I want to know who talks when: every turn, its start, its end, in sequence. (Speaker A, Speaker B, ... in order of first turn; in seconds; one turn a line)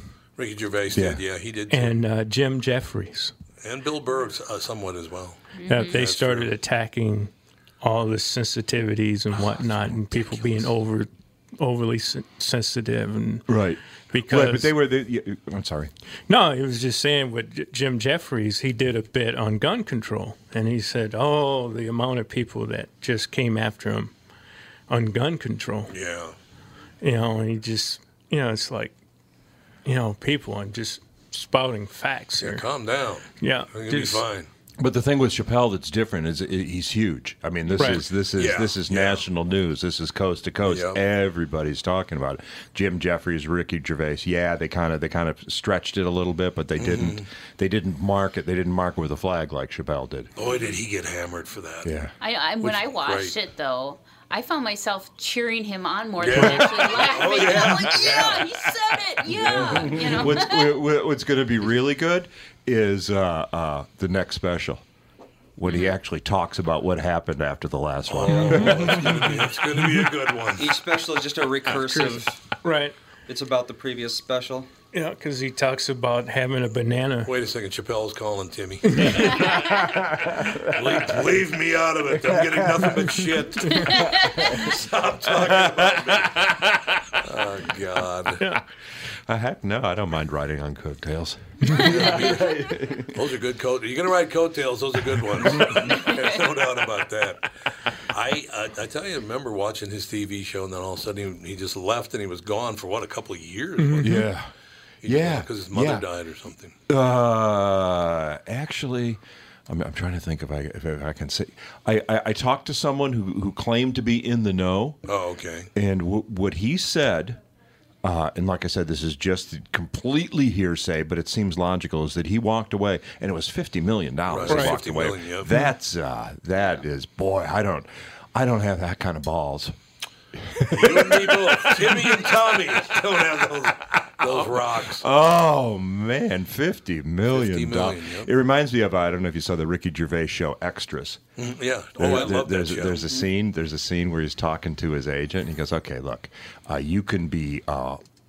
Speaker A: 0.4-2.0
Speaker B: 0.9-1.2
Speaker C: 1.7-3.3
Speaker A: 3.6-6.5
Speaker D: 5.6-6.0
Speaker C: 5.7-13.5
Speaker A: 9.4-10.7
Speaker B: 13.5-15.9
Speaker C: 14.1-14.8
Speaker C: 16.3-24.1
Speaker C: 24.9-25.9
Speaker A: 25.9-26.3
Speaker C: 27.0-29.0
Speaker C: 29.8-32.7
Speaker A: 32.4-34.5
Speaker C: 33.4-34.2
Speaker B: 34.8-50.3
Speaker C: 37.7-38.0
Speaker A: 38.3-39.2
Speaker A: 40.6-41.0
Speaker A: 46.8-47.2
Speaker A: 50.4-51.9
Speaker B: 51.8-52.1
Speaker D: 52.2-60.8
Speaker A: 52.6-53.3
Speaker A: 56.2-58.4
Speaker B: 56.3-56.9
Speaker B: 57.5-57.7
Speaker A: 59.3-60.1
Speaker B: 59.9-64.8
Speaker B: 65.6-69.3
Speaker D: 65.7-66.0
Speaker A: 68.1-70.7
Speaker E: 70.6-72.4
Speaker C: 71.8-72.9
Speaker E: 73.3-74.7
Speaker C: 74.9-77.3
Speaker A: 77.2-79.8
Speaker C: 78.8-79.6
Speaker A: 80.6-86.4
Speaker D: 84.0-84.2
Speaker B: 85.2-87.2
Speaker A: 87.2-88.4
Speaker B: 89.3-93.0
Speaker A: 91.7-104.2
Speaker D: 92.1-92.5
Speaker C: 103.8-104.3
Speaker B: 104.0-104.5
Speaker A: 105.0-106.7
Speaker B: 105.0-106.0
Speaker B: 106.9-115.0
Speaker A: 115.0-115.7
Speaker B: 115.7-117.4
Speaker B: 118.0-129.7
Speaker A: 124.3-125.5
Speaker C: 124.5-124.8
Speaker B: 130.3-132.3
Speaker A: 130.7-135.0
Speaker B: 134.2-141.2
Speaker A: 137.3-138.3
Speaker A: 141.4-143.1
Speaker B: 142.0-148.0